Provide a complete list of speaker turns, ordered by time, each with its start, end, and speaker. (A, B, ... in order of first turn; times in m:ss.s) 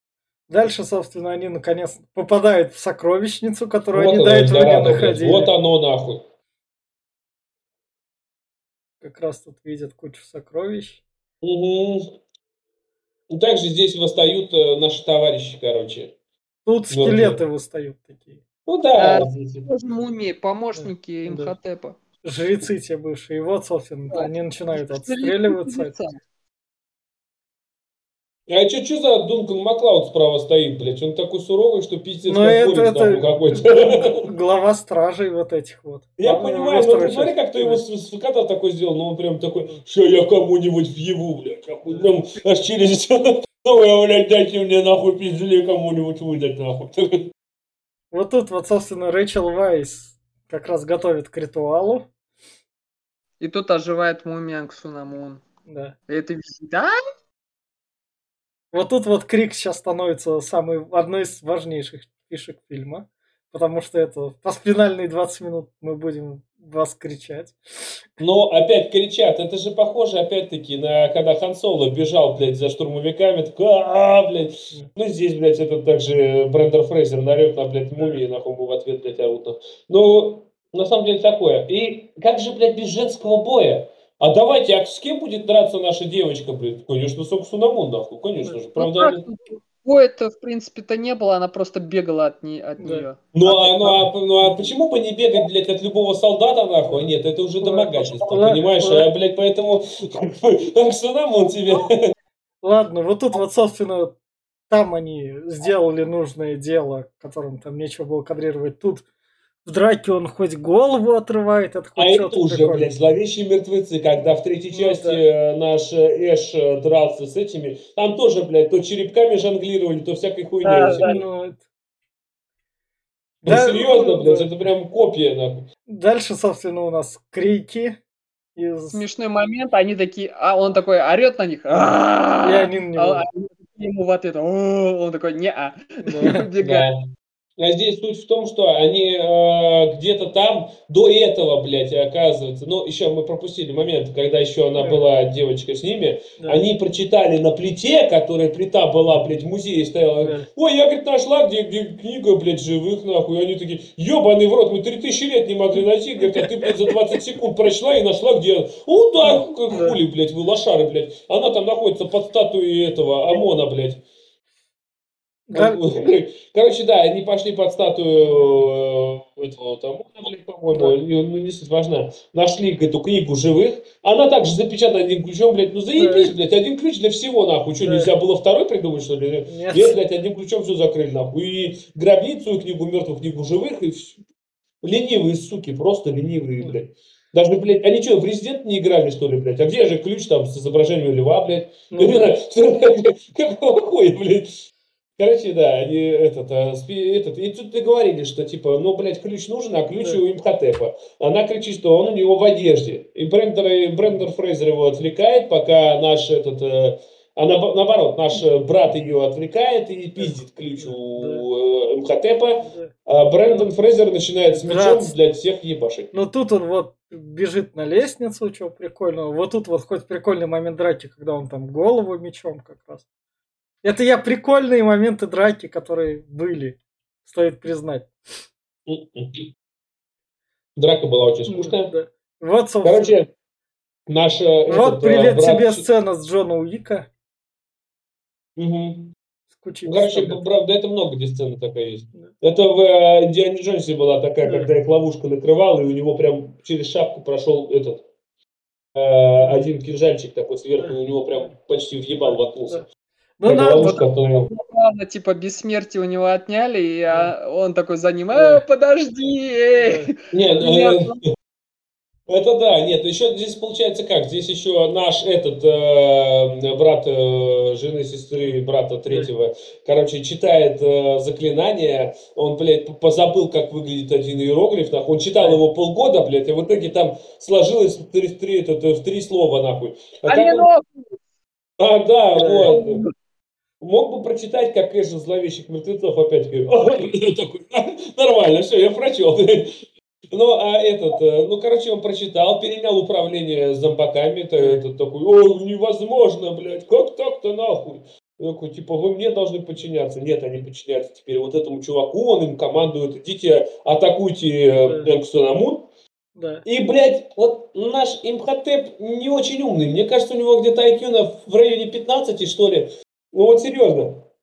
0:00.5-0:05.5 A
0:03.9-0:06.2 B
0:09.0-0:11.0 A
0:11.4-0:12.0 B
0:13.3-0:16.1 B
0:16.6-0:18.4 A
0:16.9-0:17.4 B
0:18.6-0:19.7 B
0:19.0-0:22.0 C
0:20.7-0:21.5 A
0:22.2-0:25.9 A
0:24.1-0:26.2 C
0:28.5-0:34.2 B
0:32.2-0:37.8 A
0:36.2-0:47.3 B
0:48.1-0:52.1 A
0:53.4-0:55.4 C
0:55.7-0:55.9 A
0:56.1-0:56.9 C
0:58.7-1:08.0 A
1:08.2-1:29.2 B
1:28.8-1:34.0 C
1:32.8-1:33.1 A
1:33.3-1:42.1 B
1:37.6-1:39.1 A
1:42.6-1:44.1 A
1:44.7-1:49.0 A
1:49.6-1:52.9 A
1:52.0-2:01.2 B
1:54.7-1:55.2 A
2:00.6-2:01.6 A
2:00.7-2:01.0 C
2:03.4-2:04.5 A
2:03.4-2:05.7 B
2:05.9-2:08.0 A
2:08.6-2:09.0 A
2:08.9-2:16.9 C
2:12.4-2:13.2 A
2:16.0-2:16.4 A
2:16.6-2:17.0 B
2:17.6-2:44.0 B
2:24.8-2:25.0 A
2:26.4-2:26.6 A
2:30.2-2:30.5 A
2:36.2-2:36.7 A
2:39.3-2:40.0 A
2:45.5-2:45.8 A
2:45.5-3:04.2 B
2:48.3-2:48.6 A
2:50.7-2:50.9 A
2:56.0-2:56.3 A
2:57.8-2:58.1 A
2:59.4-3:00.0 A
3:04.8-3:14.6 B
3:11.9-3:12.3 A
3:15.2-3:36.1 B
3:30.2-3:31.4 A
3:32.6-3:32.9 A
3:34.5-3:35.1 A
3:36.1-3:43.0 A
3:43.8-3:48.1 A
3:48.9-3:49.5 B
3:50.8-3:51.9 B
3:51.5-3:53.2 A
3:52.8-3:53.3 B
3:54.1-3:55.8 B
3:54.7-3:57.1 A
3:58.6-3:59.1 B
3:59.5-4:00.4 A
3:59.8-4:08.0 B
4:04.4-4:04.7 A
4:08.9-4:12.8 B
4:10.8-4:11.5 A
4:12.2-4:12.8 A
4:13.4-4:14.0 A
4:13.4-4:14.5 B
4:13.8-4:21.2 C
4:18.3-4:18.6 A
4:19.8-4:20.1 A
4:20.3-4:21.1 B
4:22.3-4:40.7 B
4:40.3-4:41.2 C
4:41.8-4:43.0 B
4:42.3-4:42.7 A
4:42.7-4:43.1 C
4:43.8-5:05.9 B
5:04.8-5:05.1 A
5:06.4-5:06.6 A
5:06.6-5:14.2 B